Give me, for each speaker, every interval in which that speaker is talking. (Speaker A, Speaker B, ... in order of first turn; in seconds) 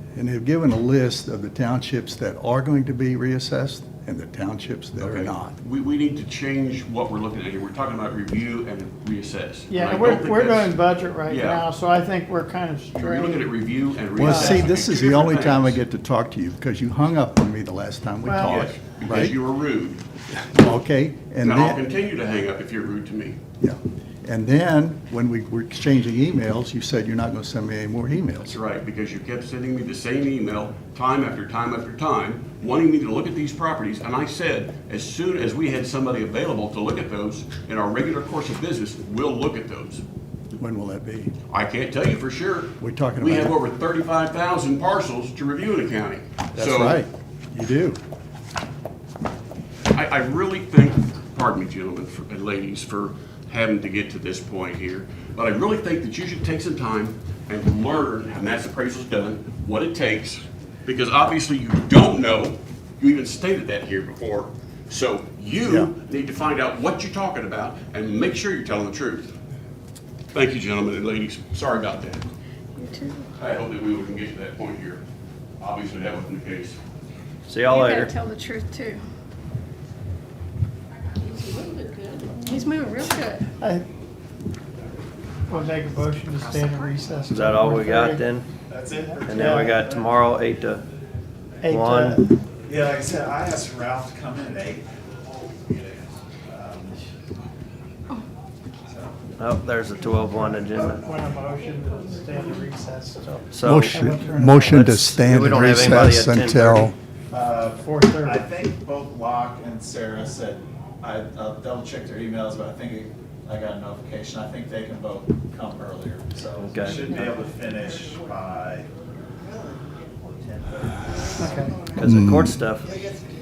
Speaker A: 0.1-5.5, 14.2-19.4, 20.4-21.8, 23.6-28.6, 40.6-41.3, 42.8-43.5, 46.5-48.0, 103.6-107.0, 122.0-122.6
Speaker B: 5.0-11.7, 12.9-15.8, 18.4-20.0, 21.4-23.4, 28.4-40.0, 41.5-47.0, 49.9-69.3, 70.3-72.2, 73.4-75.0, 75.6-76.8
Speaker C: 9.7-13.5, 14.2-14.8, 18.3-18.6, 83.6-83.8, 85.5-88.2, 89.3-89.8, 91.6-92.3, 100.7-104.9, 107.7-108.5, 121.4-121.8
Speaker D: 72.8-73.3, 77.6-79.0, 81.2-83.5
Speaker E: 77.5-78.1, 87.3-88.5, 89.2-90.8, 91.7-92.2, 99.4-101.0, 103.5-106.9, 116.6-117.1, 121.9-122.9
Speaker F: 88.7-90.2, 92.7-97.0, 98.9-99.2, 107.3-118.9, 120.2-121.6